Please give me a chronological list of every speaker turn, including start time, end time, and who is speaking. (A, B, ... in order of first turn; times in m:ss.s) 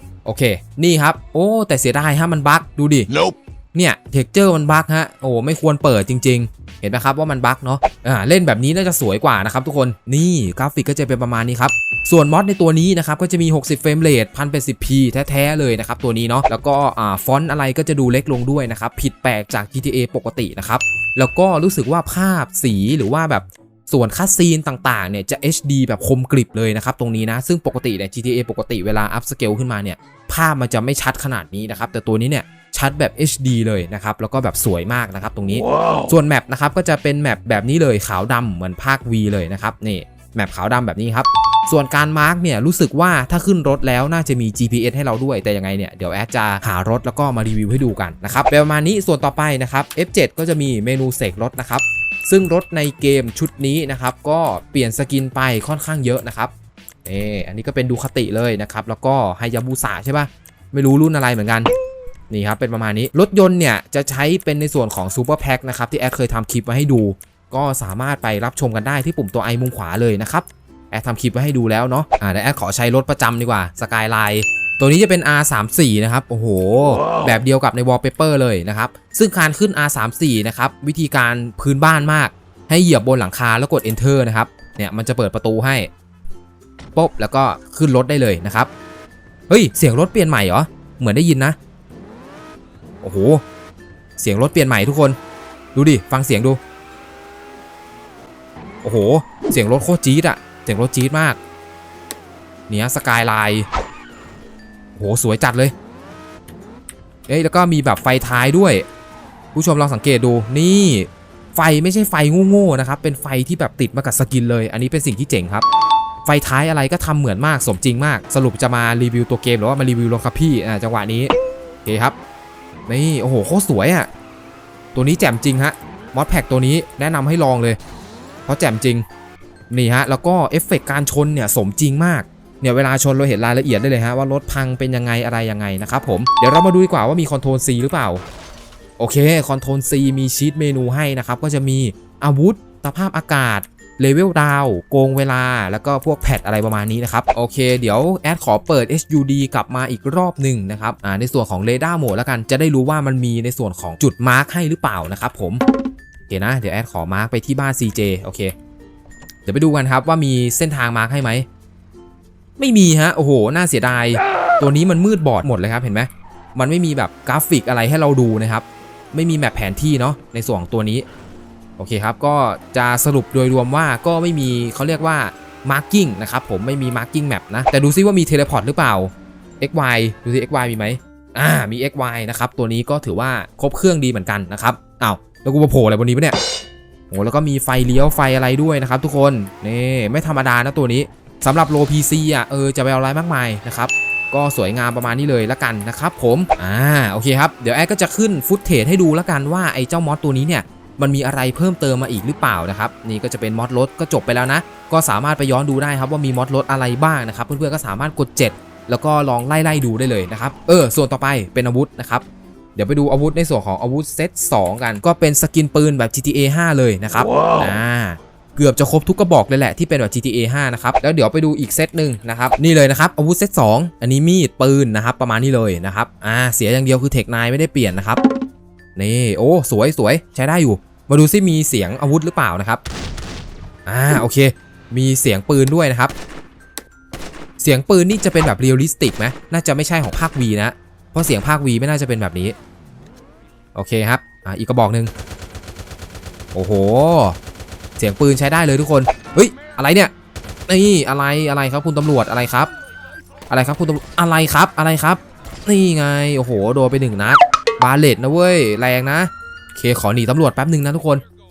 0:00.2-0:56.5 A
0:57.0-1:01.7 A
1:02.3-1:25.9 A
1:27.0-1:28.7 A
1:29.5-1:31.6 A
1:33.0-1:33.4 A
1:34.2-1:35.2 A
1:35.8-1:36.6 A
1:38.8-1:41.4 A
1:42.7-1:43.7 A
1:45.0-1:45.7 A
1:47.3-1:48.9 A
1:49.5-1:55.6 A
1:56.2-2:01.3 A
2:01.8-2:02.2 A
2:02.9-2:04.1 A
2:05.0-2:07.8 A
2:08.5-2:09.1 A
2:09.7-2:18.2 A
2:19.0-2:35.6 A
2:36.3-2:38.5 A
2:39.5-2:41.5 A
2:42.6-2:51.1 A
2:51.8-3:06.4 A
3:07.1-3:32.2 A
3:32.8-3:48.2 A
3:49.0-3:52.8 A
3:53.9-3:56.1 A
3:57.6-4:02.6 A
4:03.8-4:05.1 A
4:06.5-4:07.4 A
4:08.0-4:10.1 A
4:10.7-4:12.7 A
4:13.5-4:21.2 A